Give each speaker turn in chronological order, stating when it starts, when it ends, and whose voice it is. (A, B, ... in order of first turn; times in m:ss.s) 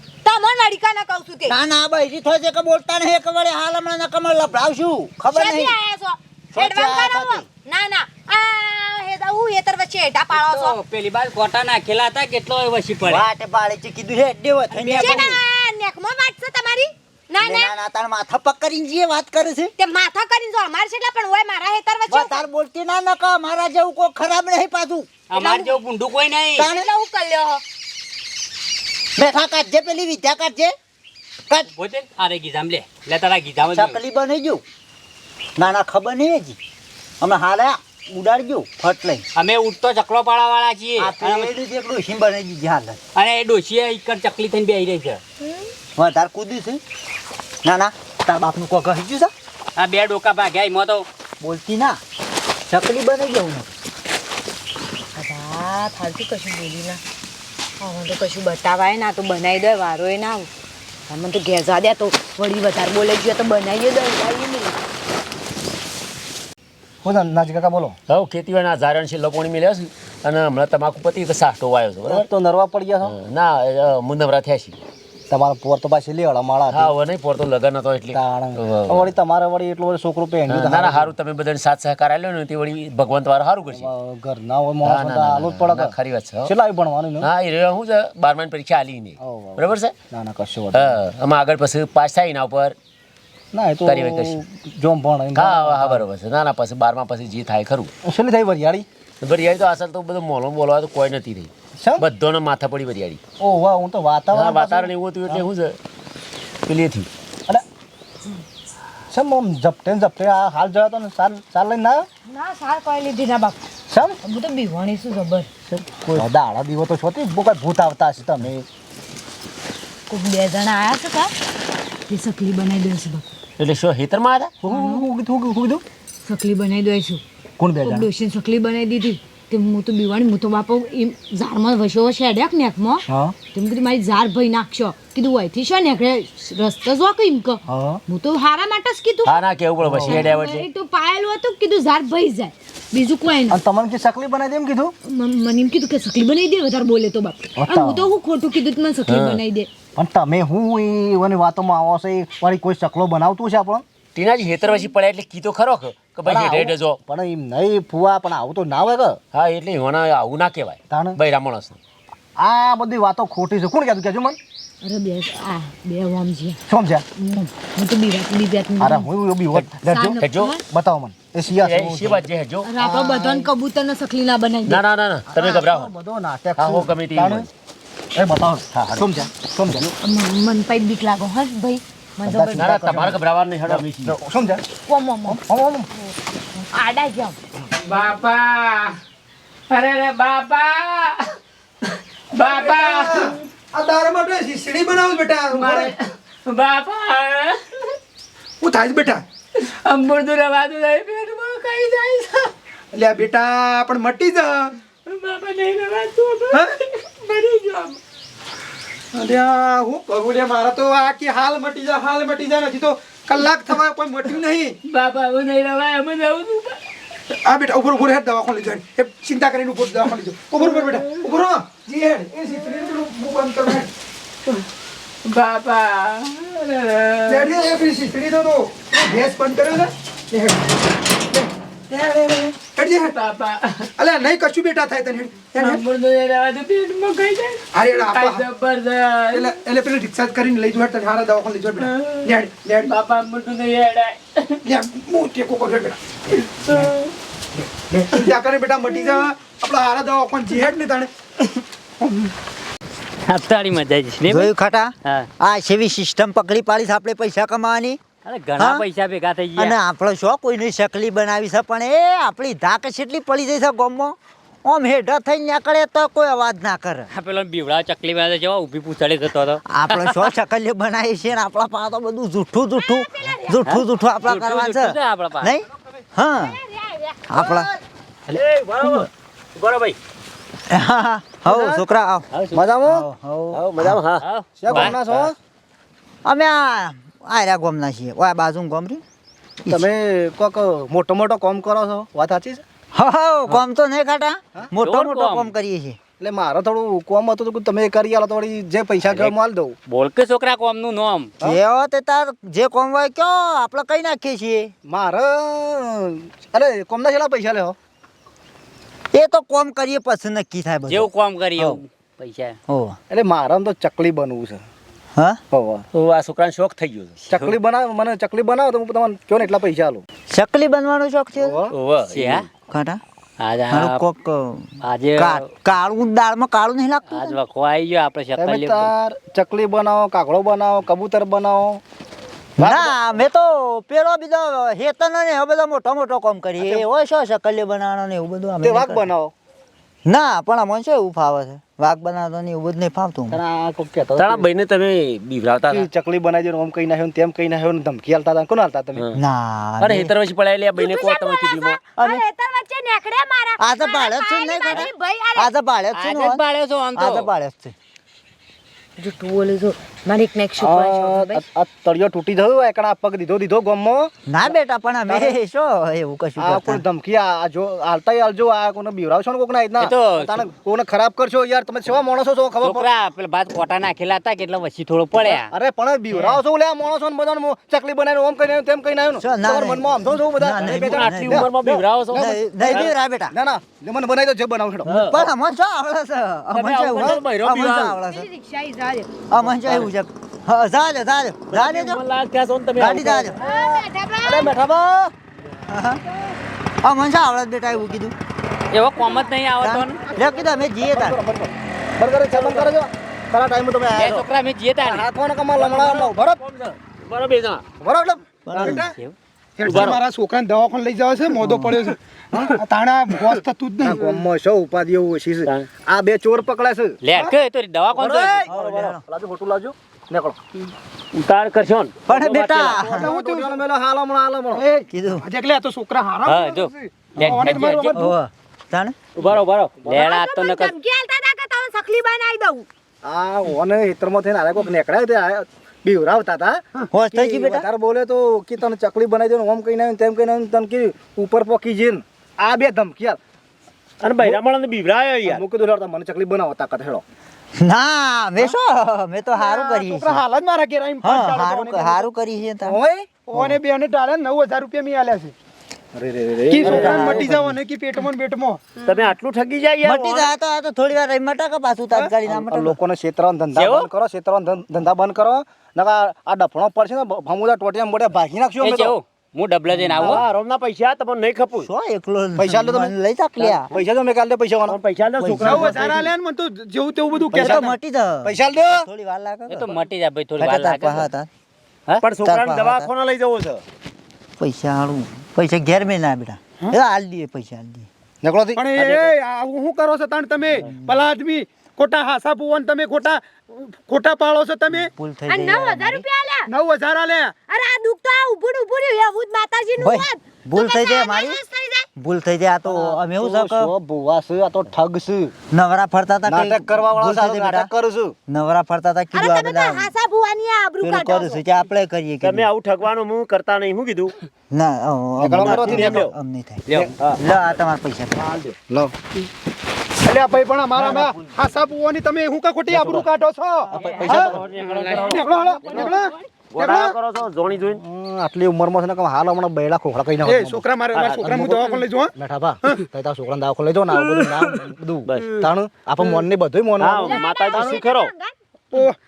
0:00.2-0:01.6 A
0:01.5-0:05.8 B
0:05.3-0:10.8 A
0:06.5-0:07.4 B
0:10.3-0:13.2 C
0:13.0-0:15.4 B
0:14.7-0:15.2 C
0:14.9-0:17.7 A
0:17.4-0:19.7 B
0:19.8-0:22.4 A
0:22.1-0:25.1 B
0:25.3-0:26.7 C
0:25.4-0:25.8 A
0:26.6-0:26.9 B
0:26.6-0:27.6 A
0:29.2-0:30.7 B
0:31.7-0:34.0 C
0:33.7-0:34.6 B
0:35.6-0:36.6 B
0:37.2-0:39.2 B
0:39.4-0:41.5 C
0:41.0-0:43.0 B
0:43.2-0:45.2 C
0:45.4-0:45.7 A
0:46.0-0:46.8 B
0:47.6-0:49.3 B
0:49.8-0:51.1 C
0:51.4-0:52.0 B
0:52.7-0:53.7 B
0:55.2-0:57.0 A
0:57.8-1:00.5 A
1:01.1-1:04.8 A
1:07.0-1:08.0 D
1:08.1-1:12.3 E
1:12.1-1:13.2 D
1:13.0-1:14.8 E
1:15.3-1:16.9 D
1:16.7-1:19.1 E
1:18.1-1:21.1 D
1:20.5-1:23.9 E
1:23.7-1:27.3 D
1:24.8-1:26.5 E
1:27.2-1:29.9 E
1:29.2-1:31.0 D
1:30.7-1:32.8 E
1:33.5-1:36.0 D
1:33.8-1:34.4 E
1:35.4-1:37.9 E
1:38.0-1:38.9 D
1:39.2-1:43.2 E
1:43.4-1:45.5 D
1:44.3-1:45.8 E
1:46.7-1:47.1 E
1:49.1-1:52.1 D
1:52.3-1:53.6 A
1:53.9-1:54.2 D
1:54.2-1:55.5 A
1:55.7-1:56.3 E
1:55.9-1:58.6 D
2:00.1-2:01.3 A
2:02.1-2:03.3 A
2:03.6-2:04.5 E
2:04.6-2:05.8 D
2:04.7-2:05.1 A
2:06.3-2:07.2 A
2:07.6-2:08.1 D
2:07.8-2:19.4 A
2:13.1-2:13.4 D
2:17.7-2:18.0 D
2:19.2-2:20.7 E
2:19.8-2:20.4 D
2:20.1-2:23.6 A
2:23.5-2:24.9 D
2:25.0-2:29.7 A
2:27.6-2:28.1 D
2:29.1-2:29.4 E
2:30.0-2:33.8 D
2:34.2-2:37.0 E
2:36.3-2:39.2 D
2:39.3-2:41.8 E
2:40.9-2:41.2 D
2:42.4-2:44.4 D
2:44.8-2:46.6 A
2:46.7-2:47.0 D
2:47.2-2:49.1 A
2:48.8-2:52.2 D
2:49.5-2:50.6 E
2:49.8-2:50.6 A
2:51.4-2:52.7 E
2:52.6-2:54.8 A
2:52.8-2:53.5 D
2:54.7-2:55.9 E
2:55.3-2:57.5 D
2:56.6-2:57.5 E
2:58.2-2:59.9 D
2:58.7-2:59.1 E
3:00.0-3:02.9 A
3:02.2-3:04.6 D
3:02.6-3:04.2 E
3:04.9-3:05.4 A
3:05.3-3:05.9 D
3:06.0-3:07.4 A
3:07.8-3:08.9 F
3:09.7-3:11.3 F
3:11.8-3:13.4 F
3:12.4-3:15.9 G
3:15.5-3:18.0 F
3:18.6-3:19.2 G
3:19.6-3:22.5 F
3:22.9-3:24.7 G
3:25.1-3:28.0 F
3:29.2-3:34.8 G
3:34.9-3:36.8 F
3:37.5-3:43.9 G
3:40.6-3:41.0 F
3:45.3-3:47.5 F
3:47.3-3:50.7 G
3:51.9-3:53.9 F
3:52.6-3:53.2 G
3:54.0-3:55.8 G
3:55.6-3:59.6 F
3:57.7-3:58.4 G
3:59.3-4:02.9 G
4:01.8-4:02.2 F
4:02.8-4:04.6 F
4:04.6-4:06.0 G
4:06.6-4:07.1 F
4:08.1-4:11.1 G
4:13.3-4:14.5 C
4:14.2-4:18.0 B
4:18.2-4:19.8 C
4:18.6-4:18.8 B
4:19.6-4:27.1 B
4:27.1-4:30.3 C
4:29.7-4:36.6 B
4:32.8-4:33.6 A
4:33.6-4:35.5 C
4:36.3-4:37.7 A
4:37.3-4:37.7 B
4:38.3-4:40.0 E
4:40.7-4:42.3 B
4:41.5-4:41.8 D
4:42.5-4:43.0 D
4:42.8-4:43.9 B
4:43.5-4:45.3 E
4:44.2-4:44.9 C
4:44.6-4:45.4 D
4:46.2-4:49.0 B
4:49.7-4:52.6 D
4:53.0-4:56.0 B
4:54.8-4:55.5 C
4:56.2-4:59.8 D
4:59.9-5:01.3 C
5:01.4-5:04.7 B
5:04.9-5:07.8 D
5:09.1-5:11.1 B
5:10.9-5:12.6 C
5:12.7-5:13.0 B
5:13.1-5:14.6 D
5:15.5-5:15.9 D
5:15.9-5:17.2 E
5:17.2-5:17.6 C
5:17.3-5:20.0 D
5:20.3-5:21.6 B
5:21.4-5:21.7 D
5:21.7-5:22.4 E
5:22.1-5:22.5 C
5:22.7-5:23.0 B
5:23.4-5:24.0 C
5:23.7-5:27.4 B
5:24.8-5:25.5 C
5:27.1-5:28.9 C
5:28.4-5:31.8 D
5:32.6-5:39.1 B
5:32.6-5:33.0 D
5:38.6-5:39.3 D
5:40.1-5:43.4 B
5:43.3-5:44.5 D
5:44.2-5:45.9 E
5:45.7-5:49.1 D
5:49.2-5:50.1 B
5:49.8-5:51.8 E
5:50.8-5:55.5 A
5:52.0-5:52.2 B
5:53.6-5:56.4 B
5:56.0-5:57.3 C
5:57.0-5:57.7 B
5:59.0-6:01.4 A
6:00.6-6:04.1 D
6:04.3-6:06.8 B
6:05.1-6:05.4 D
6:06.4-6:12.8 D
6:09.8-6:10.4 C
6:12.6-6:15.5 C
6:15.3-6:25.1 D
6:19.2-6:21.5 B
6:20.6-6:22.9 E
6:22.1-6:23.3 B
6:24.9-6:25.3 E
6:25.0-6:28.3 B
6:26.6-6:28.0 E
6:27.0-6:27.2 D
6:28.1-6:29.3 A
6:29.3-6:32.0 B
6:29.4-6:29.9 E
6:31.5-6:33.4 E
6:32.8-6:33.4 B
6:33.4-6:34.6 A
6:34.2-6:35.1 D
6:35.7-6:36.0 B
6:36.8-6:38.2 B
6:38.7-6:40.0 C
6:39.6-6:41.2 B
6:40.8-6:44.3 D
6:43.9-6:45.0 C
6:44.8-6:46.4 D
6:45.6-6:47.6 E
6:47.8-6:48.7 D
6:48.5-6:48.9 B
6:48.6-6:48.9 G
6:48.7-6:49.2 C
6:49.6-6:52.0 G
6:49.7-6:50.0 E
6:51.4-6:51.8 D
6:52.3-6:52.6 D
6:52.6-6:54.2 G
6:53.8-6:57.0 D
6:57.0-6:58.5 C
6:58.0-7:00.4 D
6:58.5-6:59.0 B
7:01.2-7:02.9 E
7:02.1-7:03.1 B
7:02.8-7:04.7 D
7:02.9-7:03.6 G
7:04.9-7:05.2 B
7:05.2-7:08.2 G
7:06.3-7:07.9 C
7:07.9-7:09.0 B
7:09.2-7:09.8 E
7:09.9-7:10.8 C
7:09.9-7:12.7 A
7:13.0-7:16.6 D
7:16.9-7:17.7 B
7:17.1-7:23.2 D
7:24.0-7:25.4 E
7:25.2-7:27.0 D
7:27.6-7:30.2 B
7:29.4-7:32.1 G
7:31.0-7:32.8 B
7:32.7-7:33.6 D
7:33.3-7:35.3 G
7:36.0-7:37.6 D
7:36.5-7:38.6 G
7:36.6-7:36.9 E
7:36.6-7:37.2 B
7:38.8-7:40.3 E
7:39.8-7:42.8 B
7:42.3-7:49.0 D
7:43.6-7:43.9 E
7:48.6-7:50.2 C
7:49.9-7:50.2 D
7:50.0-7:51.7 E
7:51.6-7:53.7 B
7:52.4-7:54.8 D
7:54.7-7:56.1 E
7:55.2-7:55.8 B
7:55.4-7:57.7 G
7:57.3-7:57.6 D
7:57.4-7:59.7 B
7:58.2-7:58.9 D
7:59.5-8:01.1 C
8:00.4-8:01.3 B
8:02.0-8:03.6 E
8:02.2-8:02.9 B
8:04.4-8:07.9 B
8:08.2-8:08.8 D
8:08.6-8:14.9 G
8:08.8-8:09.0 E
8:10.6-8:11.0 B
8:14.7-8:16.0 B
8:15.3-8:16.5 A
8:16.5-8:17.3 G
8:17.5-8:21.9 A
8:19.8-8:21.4 B
8:22.0-8:23.7 B
8:22.7-8:25.3 D
8:25.5-8:27.7 B
8:26.3-8:28.1 D
8:28.3-8:29.9 B
8:29.1-8:31.4 A
8:30.8-8:32.5 B
8:32.2-8:34.2 E
8:34.5-8:36.6 B
8:35.2-8:36.1 D
8:35.3-8:36.1 E
8:36.7-8:37.5 E
8:37.2-8:38.3 B
8:38.3-8:38.9 D
8:40.0-8:44.3 G
8:42.7-8:43.1 E
8:43.7-8:44.4 D
8:43.8-8:44.2 C
8:43.8-8:45.9 E
8:45.0-8:46.9 G
8:46.5-8:47.8 E
8:47.8-8:50.6 D
8:50.2-8:52.8 G
8:51.0-8:51.3 E
8:51.2-8:57.8 D
8:55.1-8:55.5 E
8:56.8-8:58.1 E
8:57.0-8:58.3 A